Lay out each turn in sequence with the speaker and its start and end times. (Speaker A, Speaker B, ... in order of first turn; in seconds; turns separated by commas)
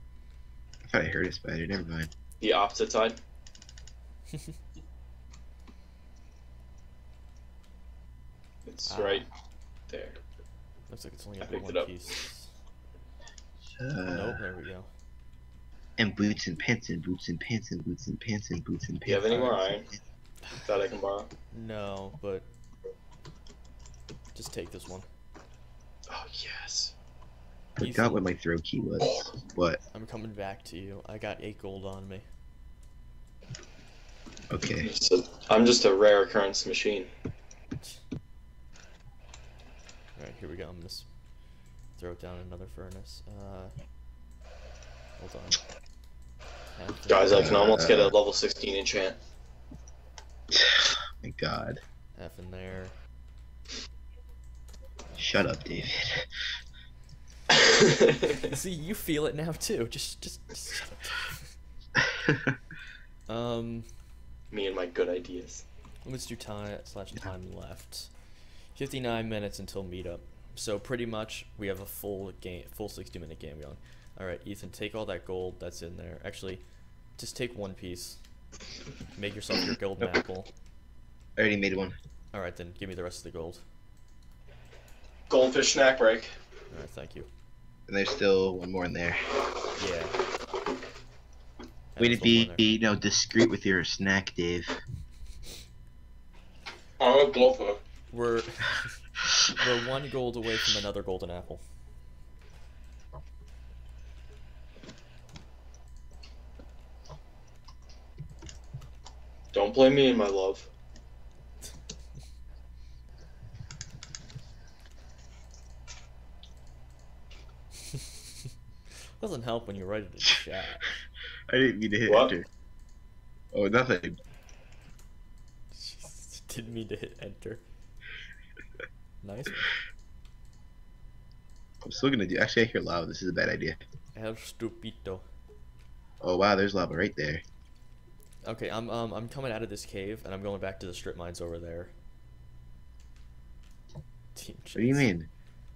Speaker A: 0.9-2.1, Speaker B: 2.4-3.2, Speaker B: 8.7-9.3, Speaker C: 8.9-9.2, Speaker B: 9.9-10.2, Speaker C: 10.9-12.5, Speaker B: 11.4-12.1, Speaker A: 13.8-14.4, Speaker C: 14.1-14.9, Speaker A: 16.0-20.0, Speaker B: 19.1-19.9, Speaker B: 20.6-21.3, Speaker C: 21.5-22.5, Speaker C: 24.4-25.1, Speaker B: 26.1-26.9, Speaker C: 27.8-28.3, Speaker A: 27.8-29.8, Speaker C: 29.9-32.3, Speaker A: 34.5-34.9, Speaker B: 34.8-37.1, Speaker C: 40.2-41.1, Speaker C: 42.0-43.7, Speaker C: 45.2-45.6, Speaker C: 46.8-47.6, Speaker B: 47.1-49.2, Speaker A: 47.3-48.1, Speaker A: 50.5-51.8, Speaker C: 52.2-53.0, Speaker A: 55.2-56.3, Speaker B: 57.5-58.5, Speaker C: 58.4-61.5, Speaker A: 62.0-62.6, Speaker C: 63.3-63.9, Speaker B: 64.5-65.7, Speaker C: 66.0-68.1, Speaker C: 68.7-76.6, Speaker C: 77.2-78.2, Speaker C: 79.1-80.5, Speaker A: 81.4-82.0, Speaker C: 82.3-83.6, Speaker B: 85.3-86.3, Speaker C: 86.7-87.3, Speaker A: 87.9-89.2, Speaker C: 89.8-90.2, Speaker C: 91.9-92.7, Speaker A: 92.0-94.8, Speaker B: 97.0-97.8, Speaker C: 98.1-101.6, Speaker B: 109.5-110.7, Speaker C: 119.2-120.9, Speaker A: 121.5-122.5, Speaker B: 122.1-122.3, Speaker A: 123.5-124.2, Speaker C: 125.7-127.6, Speaker C: 129.2-129.8, Speaker A: 131.8-133.8, Speaker C: 134.2-135.2, Speaker A: 136.2-137.4, Speaker C: 138.4-141.9, Speaker C: 144.3-145.1, Speaker A: 144.8-145.3